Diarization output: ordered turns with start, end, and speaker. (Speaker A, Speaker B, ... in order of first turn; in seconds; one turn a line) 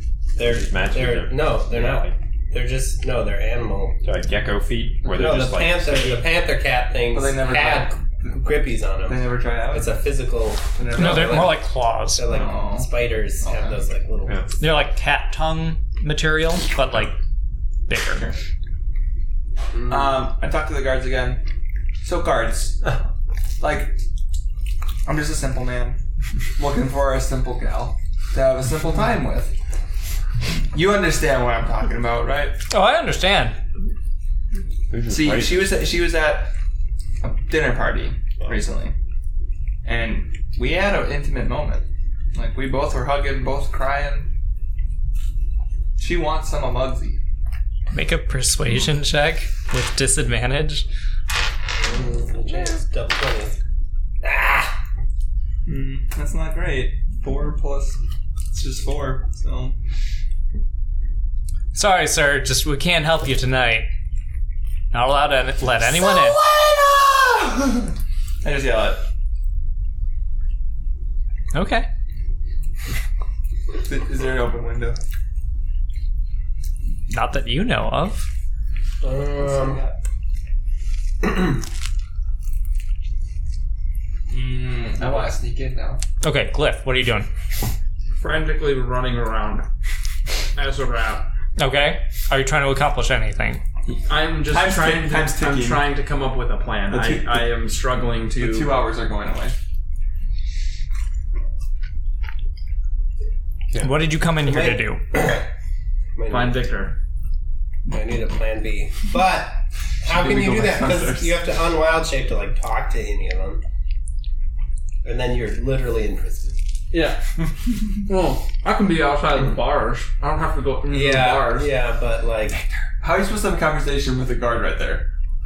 Speaker A: 0.4-4.0
Speaker B: 0.4-2.2
Speaker B: 4.0-6.3
Speaker A: 5.1-14.5
Speaker C: 7.1-10.0
Speaker C: 10.7-11.6
Speaker D: 10.9-12.2
Speaker C: 12.3-12.9
Speaker C: 13.4-13.8
Speaker B: 14.3-14.5
Speaker D: 14.6-17.2
Speaker D: 17.9-18.3
Speaker C: 18.1-18.4
Speaker A: 19.7-20.2
Speaker C: 19.9-21.4
Speaker C: 22.0-23.0
Speaker C: 23.6-24.0
Speaker C: 25.1-26.0
Speaker C: 26.6-29.5
Speaker C: 30.7-32.6
Speaker D: 32.7-33.6
Speaker B: 34.9-35.7
Speaker C: 35.1-36.5
Speaker C: 37.2-38.9
Speaker C: 39.9-44.3
Speaker C: 46.0-47.2
Speaker D: 47.9-50.9
Speaker A: 51.8-53.6
Speaker A: 54.2-54.8
Speaker C: 55.6-58.0
Speaker C: 58.5-59.8
Speaker D: 61.7-63.9
Speaker D: 64.9-66.4
Speaker C: 65.8-69.0
Speaker D: 71.5-71.9
Speaker C: 73.8-75.0
Speaker D: 77.1-78.3
Speaker A: 79.0-79.8
Speaker C: 79.4-80.0
Speaker C: 84.3-86.0
Speaker D: 86.2-87.3
Speaker E: 88.2-89.7
Speaker E: 90.5-91.3
Speaker D: 91.6-93.6
Speaker E: 93.9-98.8
Speaker C: 94.5-95.9
Speaker C: 96.9-97.5
Speaker C: 98.4-99.6
Speaker B: 103.7-104.0
Speaker D: 103.8-105.0
Speaker A: 104.4-105.4
Speaker A: 106.2-106.6
Speaker E: 106.3-107.0
Speaker A: 107.9-113.6
Speaker C: 110.0-111.4
Speaker A: 115.0-116.6
Speaker E: 116.9-117.2
Speaker E: 118.0-121.7
Speaker A: 120.9-122.6
Speaker C: 123.0-125.1